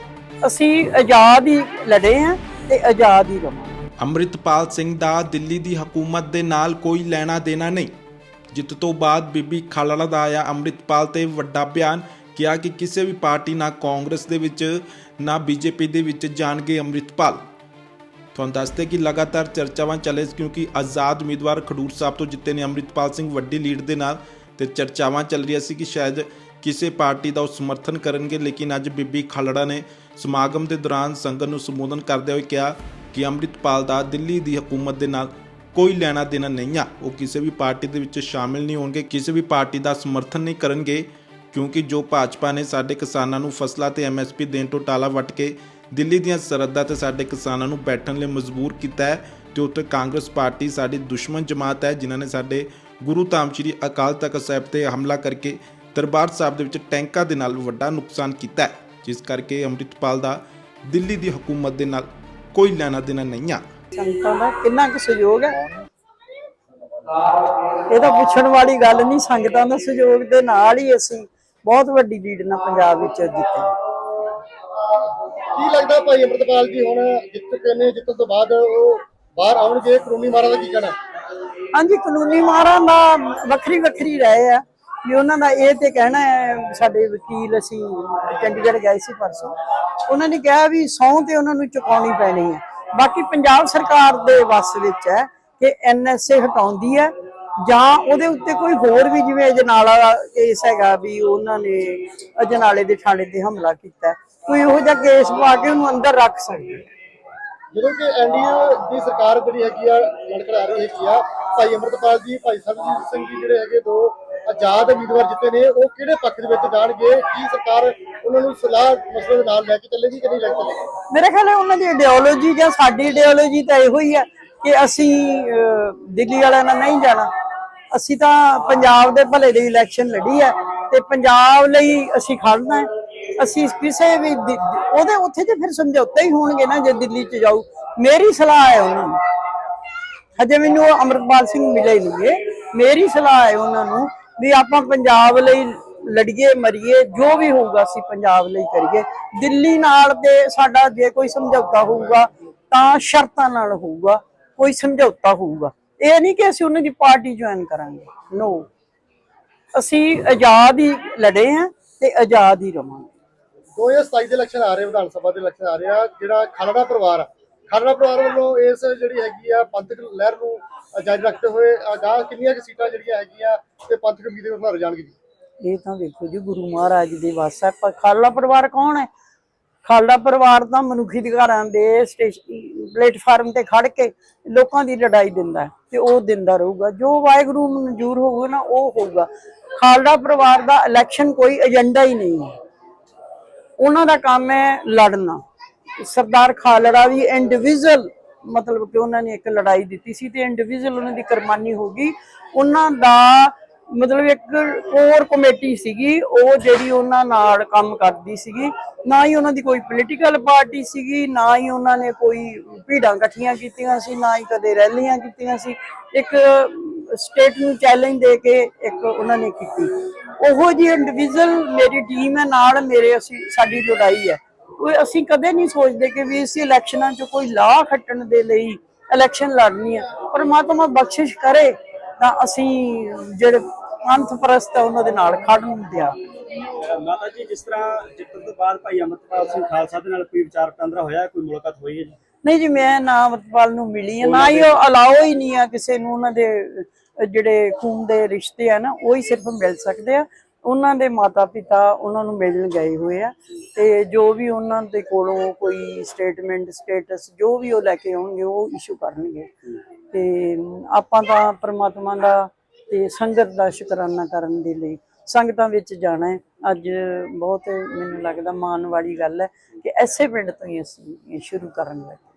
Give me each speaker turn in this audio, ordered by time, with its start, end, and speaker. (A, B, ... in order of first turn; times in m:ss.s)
0:00.4-0:03.8 A
0:04.0-0:07.9 B
0:08.5-0:17.4 B
0:18.4-1:03.6 B
1:03.9-1:05.6 A
1:07.9-1:13.7 A
1:15.6-1:20.9 C
1:21.7-1:29.6 A
1:30.1-1:46.8 A
1:47.7-2:00.9 C
2:01.1-2:07.3 A
2:07.9-2:19.2 A
2:20.4-2:38.7 A
2:39.7-2:43.1 A
2:43.8-2:55.2 C
2:55.6-2:59.1 A
2:59.8-3:12.6 A
3:13.8-3:15.4 A
3:16.0-3:56.2 A
3:56.7-4:02.2 D
4:02.4-4:19.5 A
4:04.2-4:04.8 D
4:20.1-4:32.2 A